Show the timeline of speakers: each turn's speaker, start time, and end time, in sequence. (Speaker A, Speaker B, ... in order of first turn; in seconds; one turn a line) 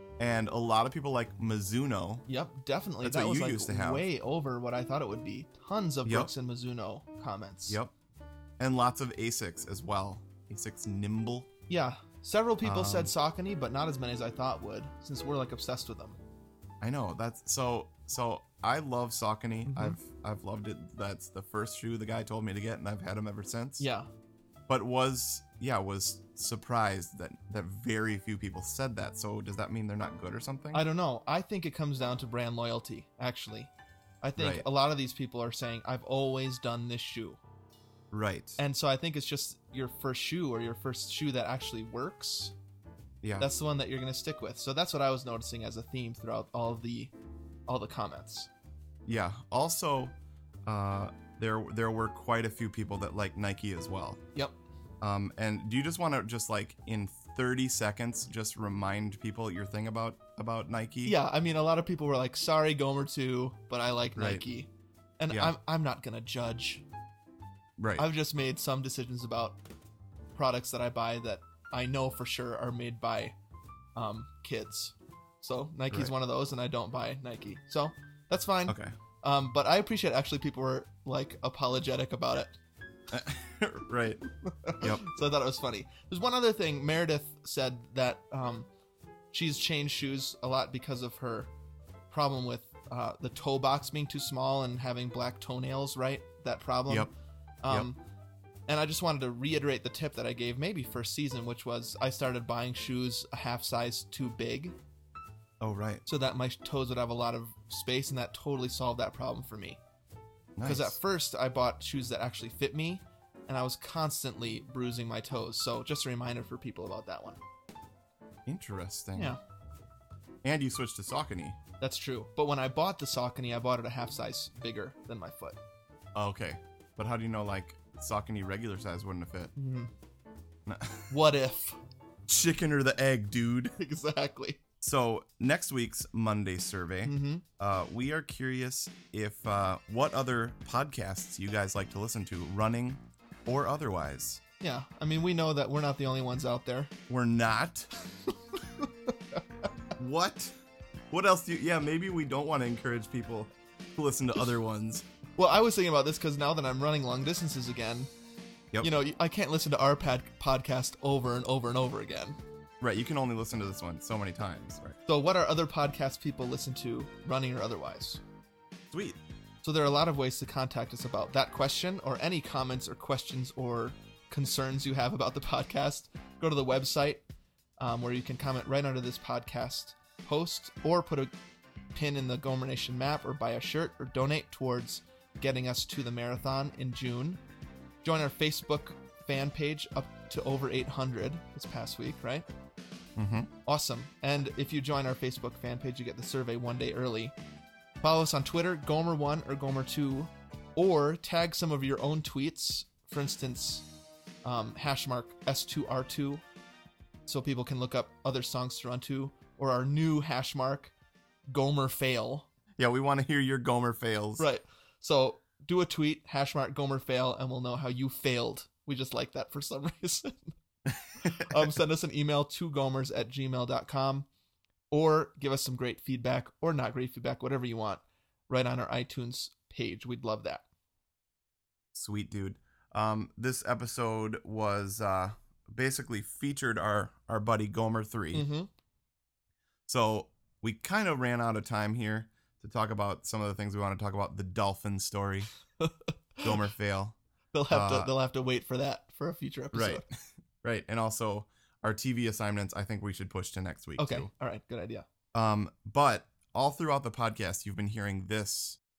Speaker A: 0.2-2.3
Speaker B: 2.3-7.8
Speaker A: 3.0-4.1
Speaker A: 6.0-6.3
Speaker A: 8.6-11.5
Speaker B: 11.7-16.2
Speaker A: 12.6-13.1
Speaker A: 16.8-23.9
Speaker B: 19.7-20.0
Speaker B: 23.8-24.1
Speaker A: 24.7-30.8
Speaker B: 30.7-33.7
Speaker B: 34.2-37.4
Speaker A: 34.4-34.7
Speaker A: 38.1-38.6
Speaker B: 38.6-42.5
Speaker A: 43.2-43.5
Speaker B: 43.4-47.1
Speaker B: 47.7-48.5
Speaker A: 49.0-50.1
Speaker A: 50.7-54.2
Speaker A: 55.0-61.2
Speaker B: 61.0-66.8
Speaker A: 64.2-64.4
Speaker A: 65.3-65.5
Speaker A: 67.8-68.1
Speaker B: 68.0-69.6
Speaker B: 70.3-73.3
Speaker B: 74.0-82.6
Speaker A: 78.7-78.9
Speaker A: 83.1-84.2
Speaker B: 84.6-88.7
Speaker A: 84.8-85.1
Speaker B: 89.3-91.5
Speaker B: 92.1-97.1
Speaker B: 97.6-98.0
Speaker B: 98.7-104.8
Speaker A: 105.6-106.0
Speaker B: 106.1-109.8
Speaker A: 110.6-111.0
Speaker B: 110.6-117.4
Speaker A: 118.5-119.4
Speaker A: 120.4-121.6
Speaker B: 121.8-125.6
Speaker A: 126.2-129.5
Speaker B: 129.6-129.9
Speaker A: 130.7-131.2
Speaker B: 131.1-131.8
Speaker A: 132.3-133.8
Speaker B: 133.8-134.6
Speaker A: 134.8-144.4
Speaker B: 137.0-137.4
Speaker B: 144.6-146.9
Speaker A: 147.1-147.9
Speaker A: 150.0-150.6
Speaker A: 151.1-155.1
Speaker B: 155.4-158.1
Speaker B: 158.8-162.4
Speaker A: 162.8-165.0
Speaker B: 165.1-168.2
Speaker A: 168.9-169.2
Speaker B: 169.6-177.2
Speaker B: 177.8-181.3
Speaker B: 181.9-187.4
Speaker B: 188.0-192.5
Speaker A: 193.2-193.5
Speaker B: 193.7-197.3
Speaker B: 198.0-203.9
Speaker B: 204.4-206.4
Speaker B: 207.3-210.9
Speaker B: 211.5-212.5
Speaker A: 212.8-214.4
Speaker B: 214.4-220.6
Speaker A: 220.9-221.7
Speaker B: 221.2-224.3
Speaker B: 224.9-230.6
Speaker A: 231.9-238.5
Speaker B: 238.3-238.7
Speaker A: 239.9-245.5
Speaker B: 245.8-246.6
Speaker A: 246.4-247.2
Speaker B: 247.5-250.0
Speaker A: 247.7-248.1
Speaker A: 249.7-254.3
Speaker B: 254.0-255.1
Speaker A: 255.3-258.8